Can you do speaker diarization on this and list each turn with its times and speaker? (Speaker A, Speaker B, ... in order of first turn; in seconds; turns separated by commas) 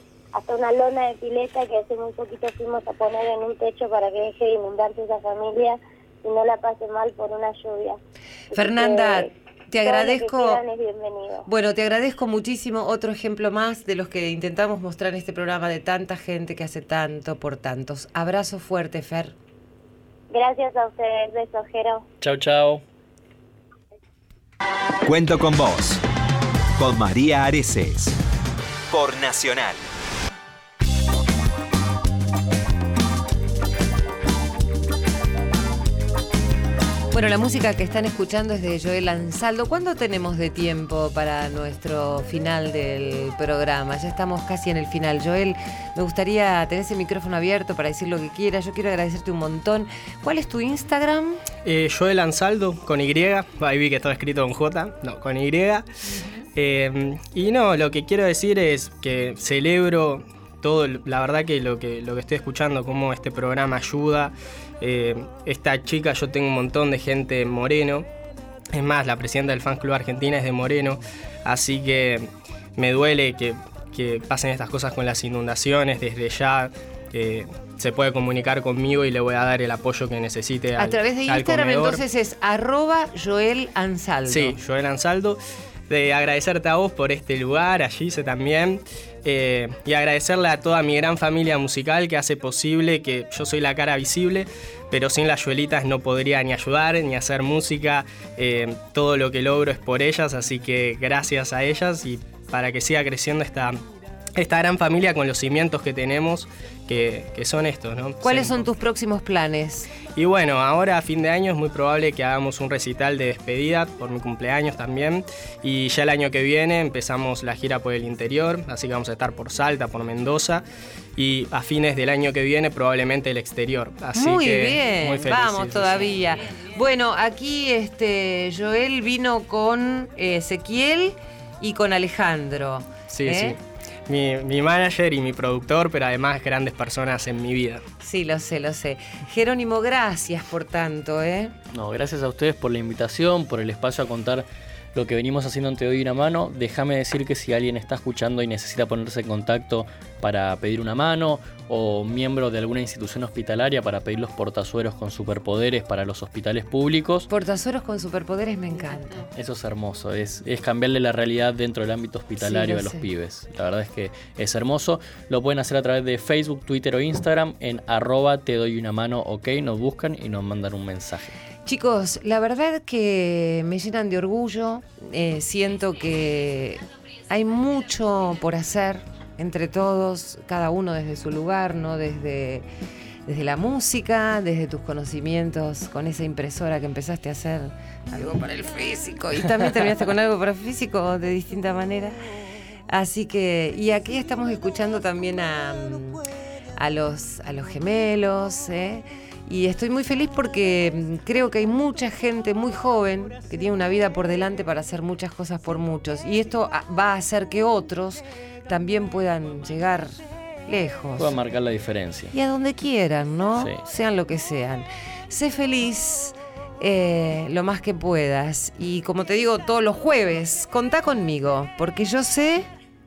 Speaker A: 0.3-8.0, Speaker A: 8.5-9.3, Speaker B: 8.5-10.6, Speaker A: 9.8-11.5, Speaker B: 11.5-19.3, Speaker A: 20.3-22.0, Speaker C: 22.2-22.8, Speaker D: 25.1-26.0, Speaker D: 26.8-28.2, Speaker D: 28.9-29.9, Speaker B: 37.1-51.4, Speaker E: 51.6-55.9, Speaker E: 56.6-68.1, Speaker E: 68.7-82.0, Speaker B: 80.8-84.6, Speaker E: 84.3-103.8, Speaker E: 104.4-108.7, Speaker B: 108.2-109.9, Speaker E: 110.2-120.7, Speaker E: 121.2-126.1, Speaker B: 124.2-133.6, Speaker E: 133.1-137.8, Speaker B: 138.0-141.6, Speaker C: 141.7-157.3, Speaker B: 157.3-159.3, Speaker C: 159.4-171.4, Speaker B: 162.4-163.1, Speaker B: 171.7-182.7, Speaker B: 183.3-192.2, Speaker B: 192.9-196.2, Speaker B: 196.8-211.4, Speaker C: 211.2-212.3, Speaker B: 212.3-222.7